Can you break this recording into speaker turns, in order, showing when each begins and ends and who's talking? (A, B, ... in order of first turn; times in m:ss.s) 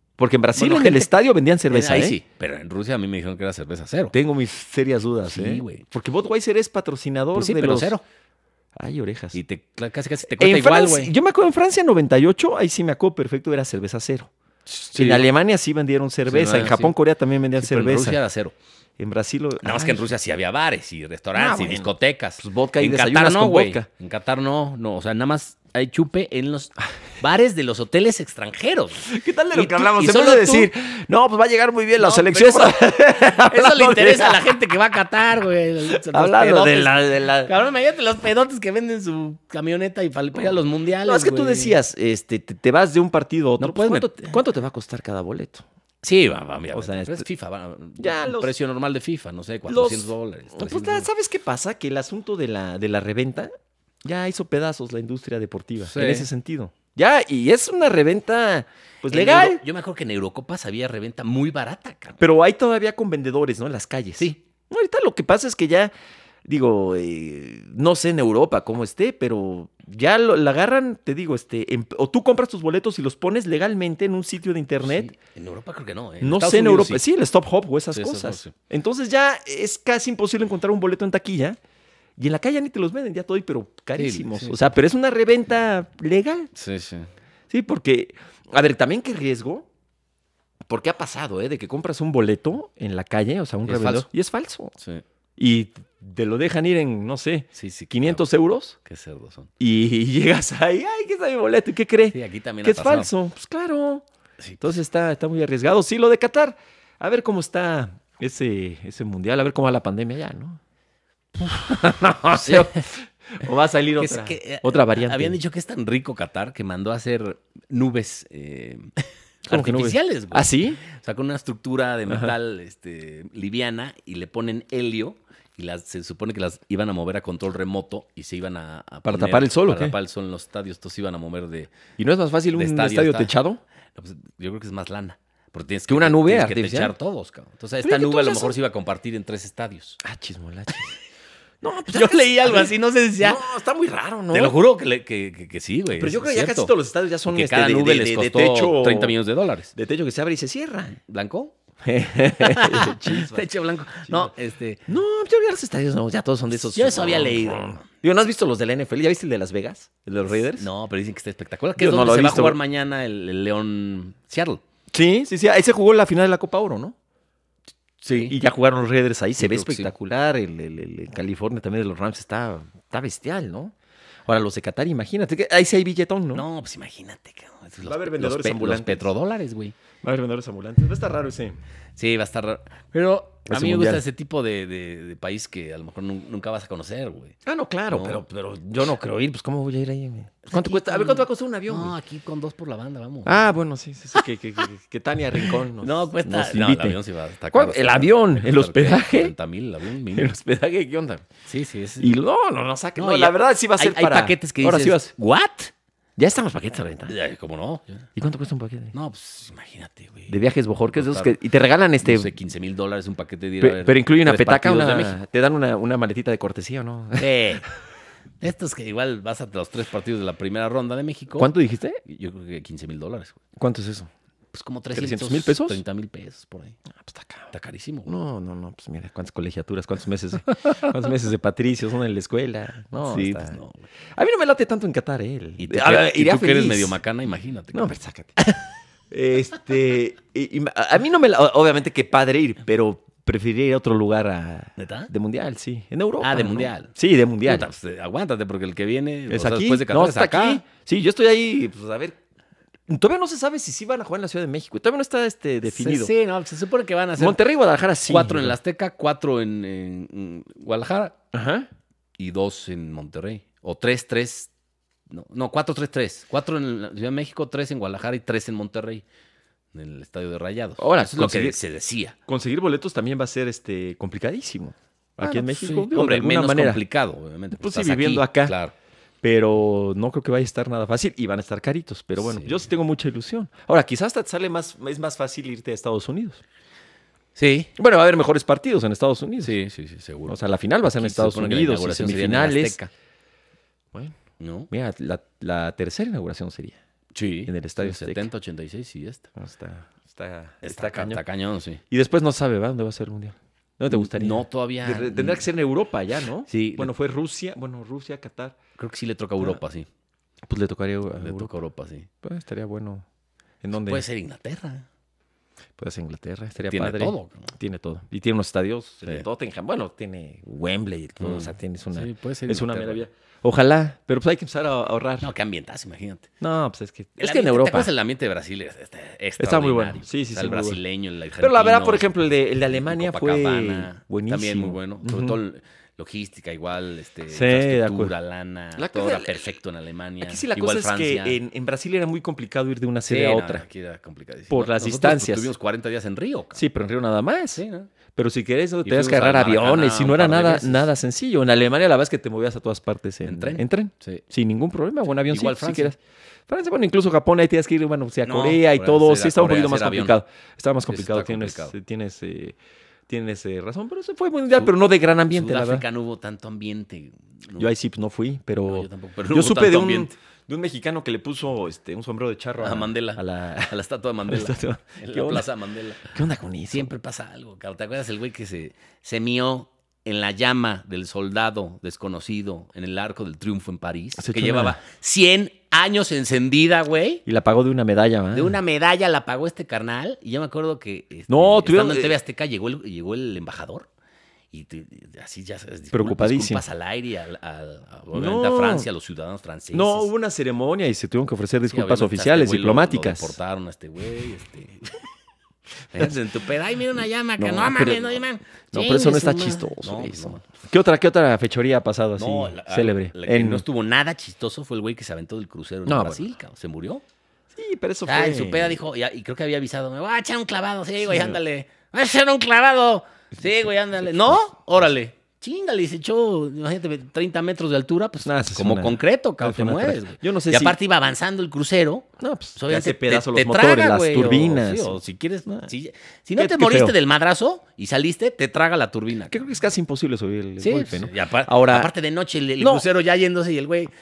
0:00.2-0:02.2 A
0:00.5-0:01.1 B
0:01.7-0:04.2 B
0:04.1-0:07.9 A
0:05.3-0:05.8 B
0:07.3-0:08.0 B
0:08.8-0:09.4 A
0:09.3-0:11.1 B
0:10.3-0:14.3 A
0:14.7-0:15.3 B
0:14.9-0:18.2 A
0:16.3-0:16.9 B
0:17.5-0:18.6 B
0:19.0-0:20.0 A
0:19.6-0:30.7 B
0:21.3-0:23.9 A
0:29.0-0:34.6 A
0:32.0-0:41.8 B
0:35.9-0:37.5 A
0:41.0-0:45.6 A
0:43.6-0:44.3 B
0:46.0-0:51.1 B
0:46.7-0:47.2 A
0:48.0-0:48.5 A
0:49.7-0:53.5 A
0:54.0-0:59.6 A
0:55.8-0:56.3 B
0:59.0-1:02.2 B
1:02.2-1:05.9 A
1:06.4-1:15.1 A
1:14.8-1:17.0 B
1:16.2-1:21.6 A
1:17.9-1:18.5 B
1:22.2-1:26.5 A
1:24.0-1:24.6 B
1:26.5-1:27.1 B
1:27.5-1:29.7 A
1:30.7-1:34.7 A
1:33.6-1:34.1 B
1:35.4-1:38.8 A
1:37.5-1:38.2 B
1:38.8-1:39.5 B
1:39.6-1:44.0 A
1:42.1-1:43.1 B
1:44.6-1:50.6 A
1:51.4-1:55.4 A
1:52.3-1:52.8 B
1:54.0-2:11.7 B
1:59.4-2:00.8 A
2:02.1-2:02.3 A
2:09.0-2:09.9 A
2:12.0-2:13.6 A
2:12.5-2:13.3 B
2:14.0-2:20.0 B
2:15.9-2:16.9 A
2:17.8-2:18.6 A
2:20.0-2:21.0 A
2:21.6-2:24.6 A
2:21.9-2:23.4 B
2:24.3-2:26.7 B
2:26.0-2:29.2 A
2:27.3-2:29.7 B
2:29.7-2:31.0 A
2:31.0-2:31.5 B
2:31.8-2:33.5 A
2:32.4-2:34.8 B
2:34.0-2:34.3 A
2:34.9-2:40.7 A
2:36.5-2:37.8 B
2:40.5-2:44.6 B
2:41.8-2:42.6 A
2:44.9-2:46.9 A
2:48.0-2:48.4 B
2:48.1-2:53.7 A
2:49.4-2:49.9 B
2:54.2-2:56.4 A
2:56.3-2:59.8 B
2:57.8-2:59.1 A
3:00.0-3:01.6 A
3:02.0-3:07.4 B
3:03.5-3:04.0 A
3:07.4-3:12.0 A
3:07.9-3:08.2 B
3:10.4-3:13.5 B
3:13.2-3:17.0 A
3:15.4-3:20.3 B
3:17.5-3:19.3 A
3:20.1-3:21.2 A
3:21.5-3:22.2 B
3:22.0-3:25.1 A
3:23.0-3:25.7 B
3:26.2-3:27.1 A
3:27.1-3:28.0 B
3:28.2-3:28.9 A
3:28.9-3:30.4 B
3:30.3-3:32.3 A
3:30.9-3:31.4 B
3:32.0-3:35.2 B
3:33.6-3:37.3 A
3:37.2-3:37.7 B
3:38.4-3:41.5 B
3:41.4-3:42.0 A
3:42.0-3:43.4 B
3:43.6-3:44.1 A
3:44.5-3:46.8 B
3:44.9-3:45.8 A
3:47.0-3:47.5 A
3:47.5-3:48.2 B
3:48.1-3:53.6 A
3:53.0-3:53.9 B
3:54.1-3:57.0 A
3:55.6-3:57.9 B
3:57.7-3:58.4 A
3:59.1-4:07.7 A
4:04.8-4:05.1 B
4:06.2-4:06.9 B
4:07.4-4:10.6 B
4:09.3-4:12.2 A
4:12.9-4:16.1 A
4:15.6-4:17.4 B
4:17.2-4:18.6 A
4:18.0-4:21.2 B
4:21.3-4:21.7 A
4:22.2-4:24.5 B
4:25.1-4:29.0 B
4:29.7-4:32.2 B
4:30.8-4:31.6 A
4:32.3-4:36.8 A
4:35.2-4:38.7 B
4:37.6-4:38.5 A
4:39.2-4:46.4 A
4:42.2-4:42.5 B
4:47.4-4:47.7 B
4:47.8-4:49.6 A
4:49.4-4:52.9 B
4:50.2-4:52.8 A
4:54.4-4:54.7 B
4:54.7-4:56.8 A
4:57.1-4:59.3 B
4:57.4-4:58.3 A
4:59.4-5:01.2 A
5:00.6-5:01.8 B
5:01.9-5:08.6 A
5:03.9-5:05.5 B
5:06.5-5:06.9 B
5:08.8-5:09.9 B
5:10.4-5:11.5 A
5:11.2-5:12.1 B
5:12.2-5:13.0 A
5:13.6-5:14.0 A
5:13.7-5:14.9 B
5:15.8-5:25.3 A
5:16.7-5:17.5 B
5:21.2-5:23.0 B
5:25.2-5:26.3 B
5:26.4-5:27.9 A
5:27.2-5:32.1 B
5:29.4-5:30.8 A
5:31.4-5:35.4 A
5:32.7-5:41.4 B
5:37.3-5:38.1 A
5:38.8-5:39.5 A
5:40.2-5:43.6 A
5:43.1-5:46.6 B
5:44.5-5:45.5 A
5:46.5-5:47.6 A
5:47.5-5:47.9 B
5:48.1-5:56.0 A
5:48.8-5:50.9 B
5:53.2-5:54.2 B
5:55.2-5:55.9 B
5:56.5-6:02.6 A
5:58.2-6:00.2 B
6:00.9-6:01.7 B
6:03.1-6:05.8 A
6:05.3-6:07.7 B
6:07.6-6:13.7 A
6:08.7-6:10.1 B
6:12.6-6:16.2 B
6:14.3-6:15.5 A
6:16.1-6:16.9 A
6:16.7-6:27.2 B
6:24.2-6:24.8 A
6:27.2-6:28.6 A
6:28.3-6:33.9 B
6:31.3-6:32.1 A
6:34.5-6:40.1 B
6:35.9-6:36.6 A
6:38.1-6:38.9 A
6:39.7-6:43.4 A
6:41.7-6:45.0 B
6:45.9-6:50.4 B
6:47.4-6:53.6 A
6:52.2-6:57.0 B
6:55.8-6:56.3 A
6:57.5-6:58.8 A
6:58.0-7:19.4 B
7:01.0-7:01.4 A
7:08.2-7:10.8 A
7:12.2-7:15.7 A
7:16.4-7:17.0 A
7:19.3-7:21.9 A
7:20.6-7:23.9 B
7:22.6-7:22.8 A